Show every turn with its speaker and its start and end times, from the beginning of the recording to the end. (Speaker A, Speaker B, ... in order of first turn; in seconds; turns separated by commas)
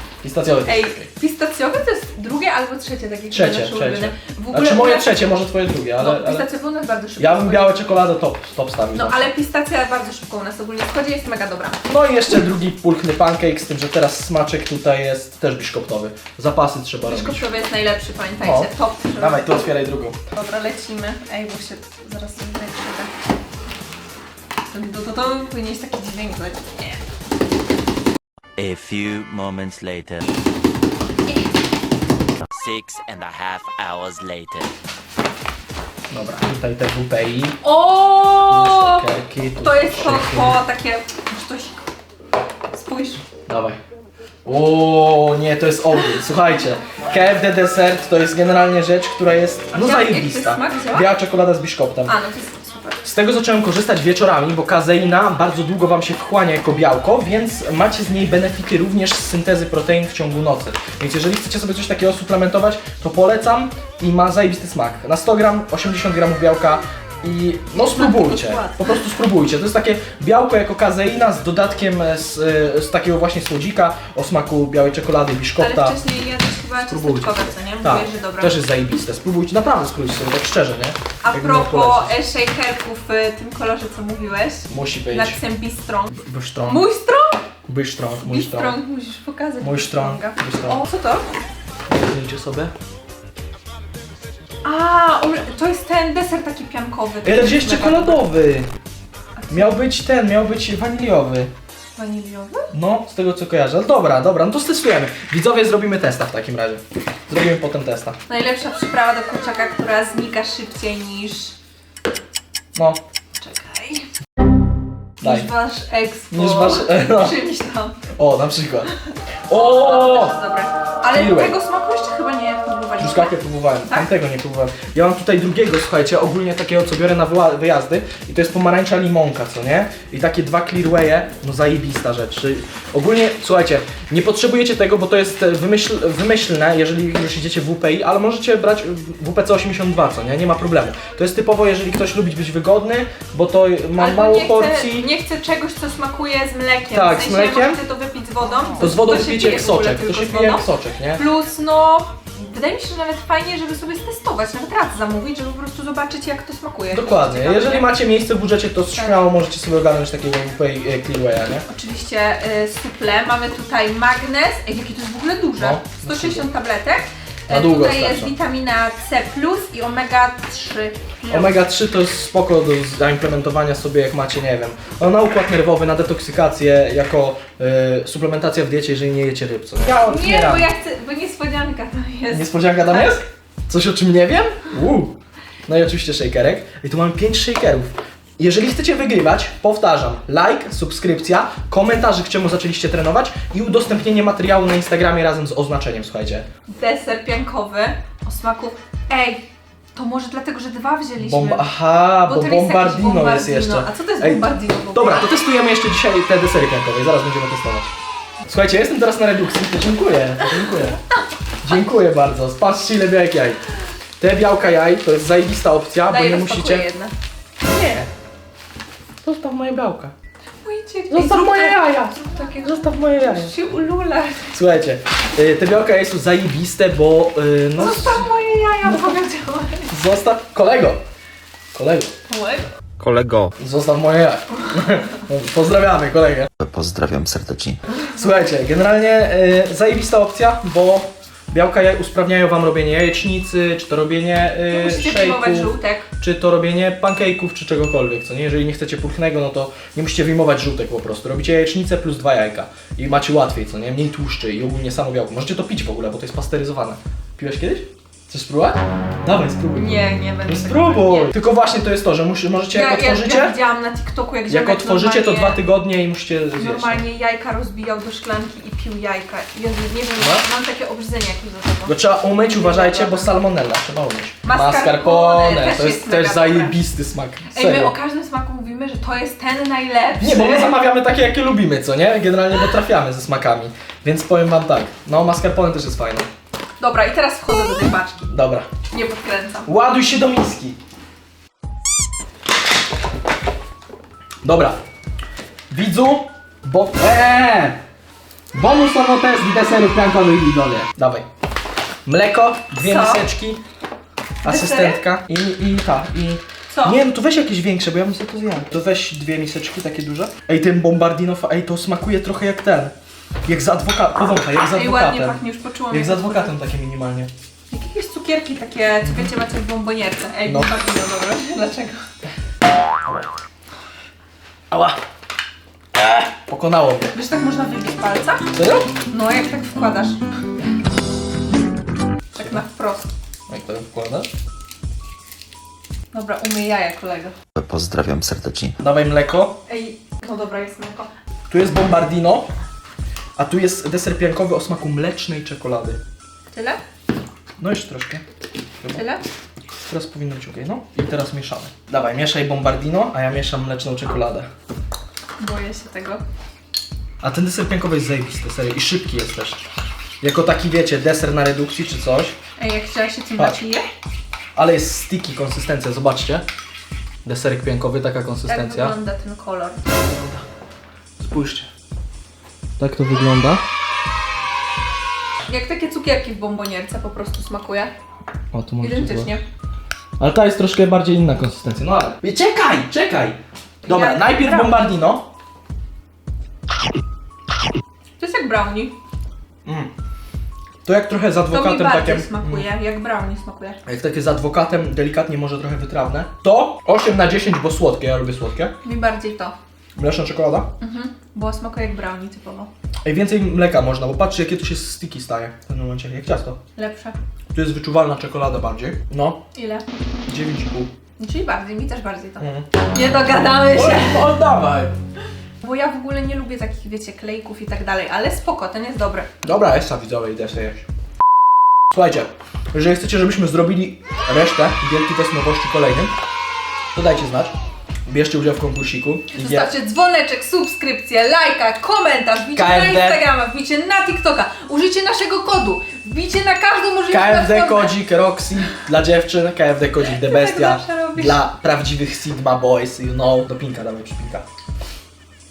Speaker A: 0.2-1.1, Speaker B: 0.7-5.1, Speaker A: 3.3-6.5, Speaker B: 6.0-7.8, Speaker A: 7.2-9.3, Speaker B: 8.9-11.8, Speaker A: 11.9-17.5, Speaker B: 17.1-19.6, Speaker A: 18.4-20.2, Speaker B: 20.3-23.1, Speaker B: 24.7-27.0, Speaker C: 28.6-30.3, Speaker C: 32.5-34.7, Speaker A: 36.1-37.6, Speaker B: 37.6-41.8, Speaker A: 38.4-40.6, Speaker B: 42.7-43.2, Speaker A: 43.5-43.8, Speaker A: 44.5-52.1, Speaker B: 49.7-51.1, Speaker B: 52.1-53.0, Speaker A: 53.0-76.0, Speaker B: 67.8-68.9, Speaker B: 75.6-78.6, Speaker A: 76.9-82.2, Speaker B: 81.2-87.4, Speaker A: 84.7-85.4, Speaker A: 86.2-86.9, Speaker A: 87.7-88.8, Speaker B: 88.2-91.2, Speaker A: 89.6-90.8, Speaker A: 91.9-92.7, Speaker B: 94.6-98.3, Speaker A: 97.2-98.7, Speaker B: 99.4-99.8, Speaker A: 99.5-101.5, Speaker B: 102.0-102.7, Speaker A: 102.7-108.2, Speaker B: 108.3-111.5, Speaker A: 112.8-113.0, Speaker B: 113.4-114.1, Speaker A: 115.2-115.5, Speaker B: 115.2-118.0, Speaker A: 116.3-117.4, Speaker A: 118.2-118.9, Speaker A: 119.5-120.4, Speaker B: 119.5-124.1, Speaker A: 121.1-121.6, Speaker A: 123.0-145.1, Speaker B: 144.0-150.7, Speaker A: 146.9-147.8, Speaker A: 148.8-151.2, Speaker B: 151.2-157.9, Speaker A: 156.9-161.7, Speaker B: 161.7-171.6, Speaker A: 165.6-166.5, Speaker A: 167.5-168.3, Speaker A: 171.3-180.7, Speaker B: 179.9-183.2, Speaker A: 182.3-185.1, Speaker A: 185.7-196.5, Speaker B: 196.8-201.7, Speaker A: 201.2-207.9, Speaker B: 202.2-205.3, Speaker A: 208.5-211.0, Speaker A: 211.6-213.6, Speaker A: 214.2-216.9, Speaker B: 216.1-217.1, Speaker A: 217.7-218.1, Speaker A: 219.2-220.1, Speaker B: 220.6-224.5, Speaker A: 221.1-223.6, Speaker A: 224.5-228.3, Speaker B: 227.8-229.9, Speaker A: 229.9-231.0, Speaker A: 231.7-232.1, Speaker B: 232.3-232.7, Speaker C: 233.0-233.5, Speaker A: 233.6-236.5, Speaker D: 236.6-237.8, Speaker A: 238.0-263.6, Speaker B: 244.7-246.1, Speaker B: 259.7-261.4, Speaker B: 262.7-265.6, Speaker A: 264.5-267.0, Speaker B: 266.6-273.4, Speaker A: 270.2-270.4, Speaker A: 271.9-277.9, Speaker B: 274.4-276.8, Speaker B: 277.5-280.8, Speaker A: 280.2-286.3, Speaker B: 286.8-288.3, Speaker A: 288.3-288.7, Speaker B: 288.9-289.7, Speaker A: 289.7-290.8, Speaker A: 294.4-294.8, Speaker A: 295.7-297.8, Speaker A: 298.5-301.3, Speaker A: 302.1-303.6, Speaker B: 302.8-303.3, Speaker A: 304.4-312.9, Speaker B: 304.4-305.0, Speaker B: 306.7-307.0, Speaker A: 313.4-317.3, Speaker B: 314.7-316.6, Speaker B: 317.7-322.0, Speaker A: 319.0-319.3, Speaker A: 320.5-320.7, Speaker A: 324.7-325.0, Speaker A: 326.0-327.1, Speaker B: 327.1-328.5, Speaker A: 328.5-328.9, Speaker B: 329.1-330.2, Speaker B: 332.3-333.1, Speaker A: 332.4-332.6, Speaker A: 333.5-334.3, Speaker B: 336.1-337.4, Speaker D: 337.6-338.8, Speaker A: 338.8-339.6, Speaker B: 339.7-341.1, Speaker A: 341.5-342.5, Speaker A: 343.4-346.0, Speaker B: 346.5-346.8, Speaker A: 347.6-348.2, Speaker B: 348.9-349.2, Speaker A: 349.8-354.5, Speaker B: 355.4-356.2, Speaker A: 357.2-359.6, Speaker A: 360.2-362.4, Speaker B: 362.6-363.9, Speaker A: 363.4-363.6, Speaker A: 364.6-366.4, Speaker A: 367.2-368.9, Speaker B: 368.5-369.9, Speaker A: 369.9-370.4, Speaker A: 371.2-371.7, Speaker A: 372.8-373.6, Speaker B: 375.5-377.9, Speaker A: 378.5-379.3, Speaker B: 378.8-379.4, Speaker A: 380.2-385.3, Speaker B: 383.9-384.9, Speaker B: 388.2-388.9, Speaker A: 389.6-389.9, Speaker A: 390.9-392.7, Speaker B: 391.5-393.8, Speaker A: 393.9-398.8, Speaker B: 398.8-399.6, Speaker A: 400.0-400.7, Speaker B: 400.8-402.7, Speaker A: 403.1-406.6, Speaker B: 406.8-407.2, Speaker A: 407.5-409.4, Speaker B: 409.5-409.9, Speaker A: 410.3-410.9, Speaker B: 411.2-414.3, Speaker A: 412.4-412.7, Speaker A: 413.3-414.9, Speaker B: 415.6-419.3, Speaker A: 419.4-420.9, Speaker A: 421.9-426.1, Speaker A: 426.9-427.5, Speaker A: 428.1-429.8, Speaker B: 429.3-438.0, Speaker A: 432.5-433.2, Speaker A: 437.1-444.4, Speaker B: 440.1-441.4